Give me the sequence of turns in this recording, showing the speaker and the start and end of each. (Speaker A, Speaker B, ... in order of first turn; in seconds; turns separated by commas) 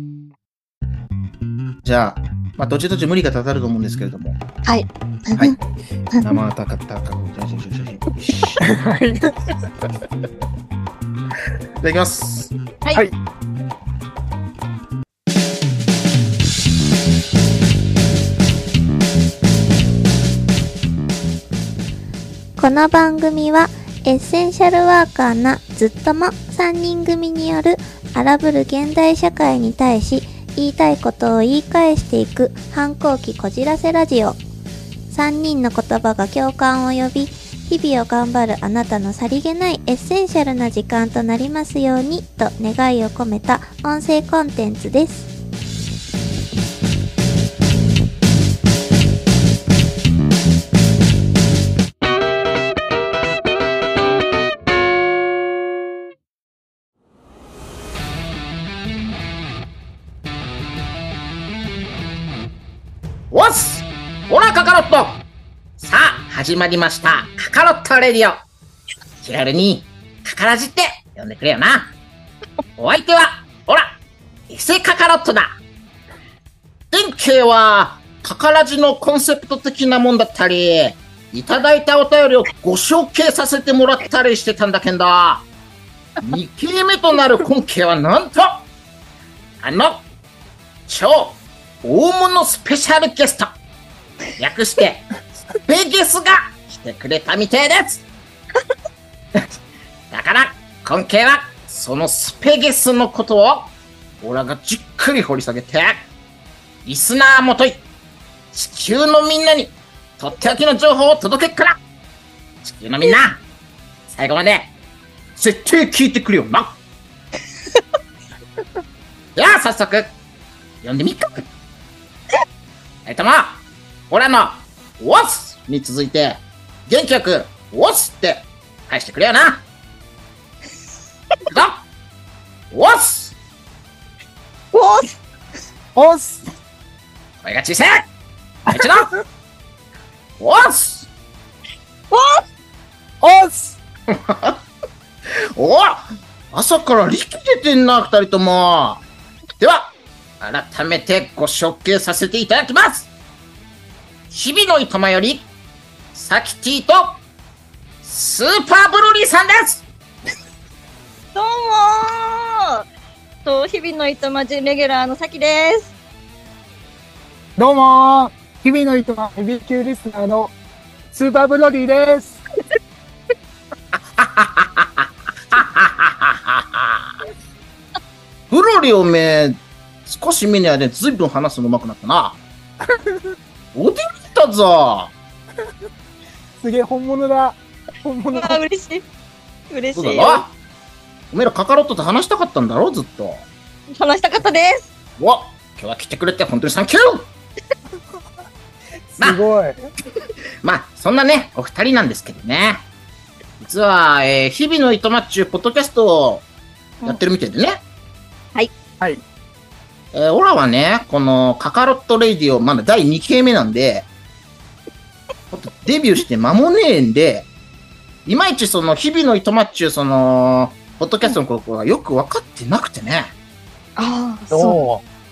Speaker A: 1.8-4.4, Speaker B: 4.6-5.5, Speaker A: 6.2-8.7, Speaker C: 8.6-9.3, Speaker A: 11.8-12.5, Speaker D: 22.6-34.4, Speaker D: 35.1-45.3, Speaker A: 63.3-65.2, Speaker A: 65.8-68.4, Speaker A: 69.2-71.9, Speaker A: 72.8-73.9, Speaker A: 74.5-75.5, Speaker A: 76.9-85.5, Speaker A: 86.2-88.6, Speaker A: 89.6-90.0, Speaker A: 90.9-93.5, Speaker A: 94.4-95.1, Speaker A: 95.7-98.0, Speaker A: 100.1-106.0, Speaker A: 106.8-107.8, Speaker A: 108.5-111.8, Speaker A: 112.6-113.4, Speaker A: 114.1-114.7, Speaker A: 115.3-116.8, Speaker A: 119.3-120.1, Speaker A: 120.8-121.4, Speaker A: 123.0-129.6, Speaker A: 131.5-131.8, Speaker A: 132.7-133.3, Speaker B: 134.7-135.1, Speaker C: 135.9-136.5, Speaker A: 137.4-138.1, Speaker A: 138.7-139.1, Speaker C: 138.7-139.1, Speaker A: 140.4-141.1, Speaker B: 142.1-142.4, Speaker C: 143.2-143.8, Speaker A: 144.1-144.6, Speaker A: 145.3-149.0, Speaker A: 149.6-153.1, Speaker A: 154.3-155.5, Speaker A: 156.1-157.2, Speaker A: 158.0-159.8, Speaker B: 161.3-162.8, Speaker B: 163.4-165.9, Speaker C: 167.6-170.5, Speaker C: 171.1-172.4, Speaker A: 173.9-177.2, Speaker A: 178.5-182.4, Speaker A: 183.7-185.1, Speaker C: 186.6-188.6, Speaker B: 188.3-189.0, Speaker B: 189.7-190.4, Speaker A: 189.9-190.5, Speaker A: 191.3-193.4, Speaker B: 193.9-194.9, Speaker A: 195.2-197.3, Speaker C: 199.1-199.8, Speaker A: 200.6-202.8, Speaker A: 203.6-206.4, Speaker A: 207.0-207.8, Speaker A: 210.1-214.1, Speaker A: 215.5-217.5, Speaker A: 218.2-223.3, Speaker B: 224.0-224.8, Speaker C: 224.5-225.0